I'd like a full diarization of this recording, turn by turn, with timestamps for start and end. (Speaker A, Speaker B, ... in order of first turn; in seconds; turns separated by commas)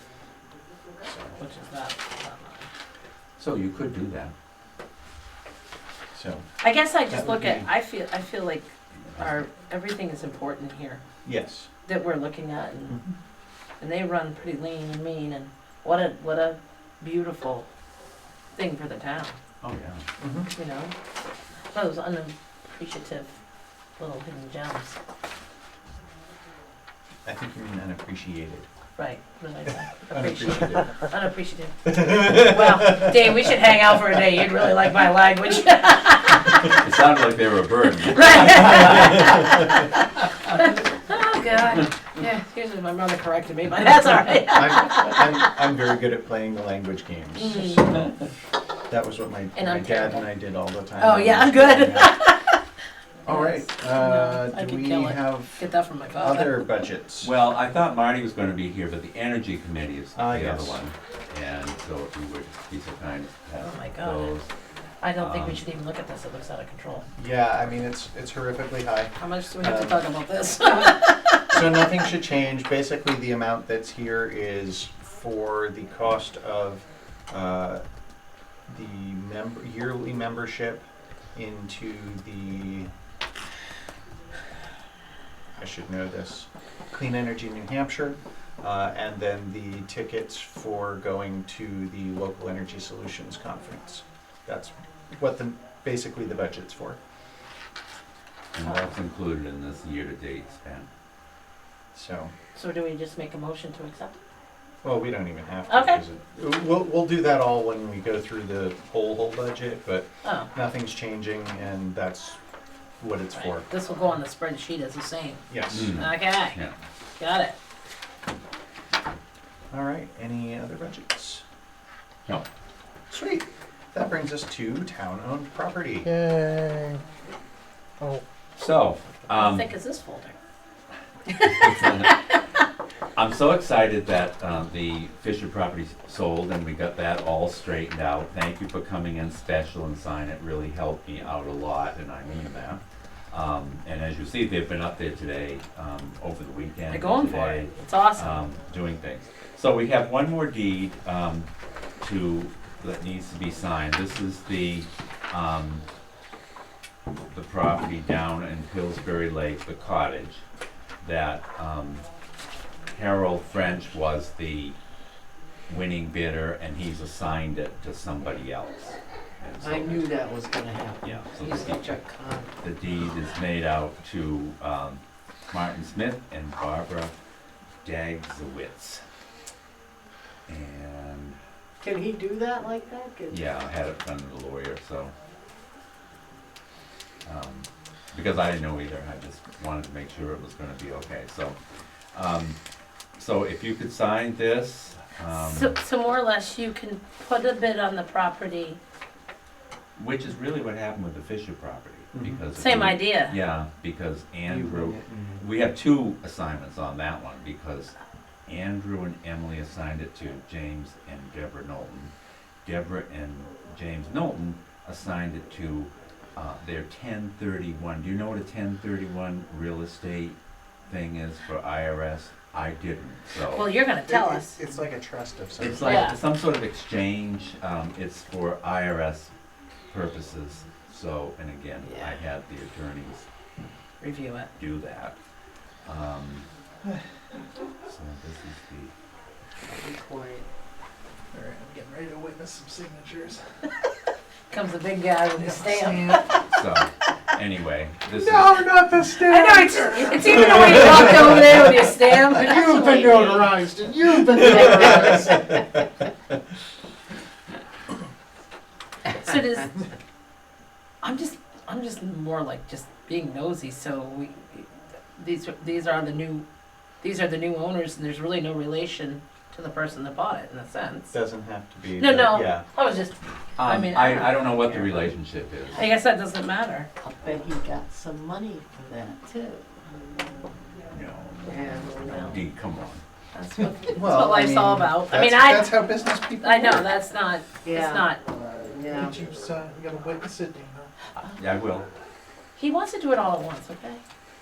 Speaker A: 1.0-1.4, Speaker B: 1.4-2.7, Speaker C: 3.4-4.3, Speaker A: 6.1-6.5, Speaker B: 6.6-11.0, Speaker A: 7.1-7.7, Speaker A: 11.2-11.7, Speaker B: 11.9-13.0, Speaker A: 12.9-13.2, Speaker B: 13.8-17.7, Speaker B: 18.6-19.4, Speaker C: 19.6-20.1, Speaker A: 20.2-20.5, Speaker B: 20.5-20.9, Speaker B: 21.7-23.3, Speaker B: 24.0-25.0, Speaker A: 27.3-28.7, Speaker B: 29.0-36.8, Speaker A: 30.1-31.0, Speaker A: 31.9-33.1, Speaker C: 36.6-39.5, Speaker B: 38.1-45.5, Speaker A: 44.5-48.1, Speaker B: 47.4-48.1, Speaker A: 48.9-52.2, Speaker B: 49.5-50.3, Speaker B: 51.0-52.6, Speaker B: 53.3-56.6, Speaker A: 53.3-57.3, Speaker C: 57.2-64.5, Speaker A: 60.1-60.8, Speaker B: 63.6-64.4, Speaker B: 65.0-67.1, Speaker C: 65.2-65.6, Speaker A: 67.2-70.0, Speaker B: 69.2-71.7, Speaker A: 71.5-77.8, Speaker A: 78.7-82.9, Speaker A: 85.6-97.0, Speaker C: 98.5-100.9, Speaker A: 101.9-102.3, Speaker B: 102.5-104.2, Speaker A: 104.8-112.4, Speaker B: 105.7-106.0, Speaker B: 110.2-110.5, Speaker A: 113.0-113.7, Speaker B: 113.3-116.6, Speaker A: 115.5-116.0, Speaker C: 115.7-116.7, Speaker B: 117.2-117.6, Speaker A: 119.7-121.4, Speaker A: 123.1-126.2, Speaker C: 128.6-129.7, Speaker B: 129.3-130.4, Speaker B: 131.3-131.9, Speaker C: 131.6-132.1, Speaker C: 133.2-155.9, Speaker B: 146.9-148.4, Speaker C: 157.3-160.4, Speaker C: 161.0-162.1, Speaker C: 162.9-164.8, Speaker C: 165.7-170.1, Speaker D: 169.6-172.6, Speaker C: 171.0-171.9, Speaker C: 172.6-177.2, Speaker C: 177.8-179.0, Speaker C: 180.5-181.4, Speaker D: 181.8-183.4, Speaker C: 183.3-185.1, Speaker C: 187.2-191.6, Speaker C: 192.1-192.6, Speaker C: 193.2-195.8, Speaker B: 195.3-198.8, Speaker C: 200.0-207.9, Speaker A: 202.1-202.4, Speaker B: 202.6-203.4, Speaker A: 204.4-205.5, Speaker C: 208.5-212.1, Speaker C: 212.6-220.4, Speaker C: 220.9-223.7, Speaker B: 223.5-224.6, Speaker A: 224.1-226.1, Speaker C: 225.6-229.3, Speaker B: 225.8-226.2, Speaker C: 229.9-233.3, Speaker D: 231.8-232.1, Speaker B: 234.0-234.5, Speaker C: 234.6-235.2, Speaker C: 235.8-236.5, Speaker C: 237.9-238.9, Speaker D: 239.7-240.5, Speaker E: 241.4-243.4, Speaker B: 244.5-246.4, Speaker C: 246.5-248.8, Speaker A: 248.8-251.8, Speaker B: 249.2-252.7, Speaker D: 252.3-255.6, Speaker A: 252.8-255.3, Speaker B: 259.1-259.9, Speaker B: 261.0-266.4, Speaker B: 267.0-271.1, Speaker A: 271.1-272.6, Speaker B: 272.0-275.0, Speaker C: 273.6-275.9, Speaker B: 275.7-276.9, Speaker D: 277.0-279.2, Speaker B: 279.2-279.7, Speaker C: 280.9-281.6, Speaker D: 281.4-282.0, Speaker B: 281.9-282.4, Speaker C: 282.1-283.0, Speaker B: 283.3-288.2, Speaker A: 283.9-286.9, Speaker D: 287.6-288.1, Speaker D: 288.7-289.3, Speaker A: 289.0-289.9, Speaker C: 291.2-291.9, Speaker B: 292.6-294.0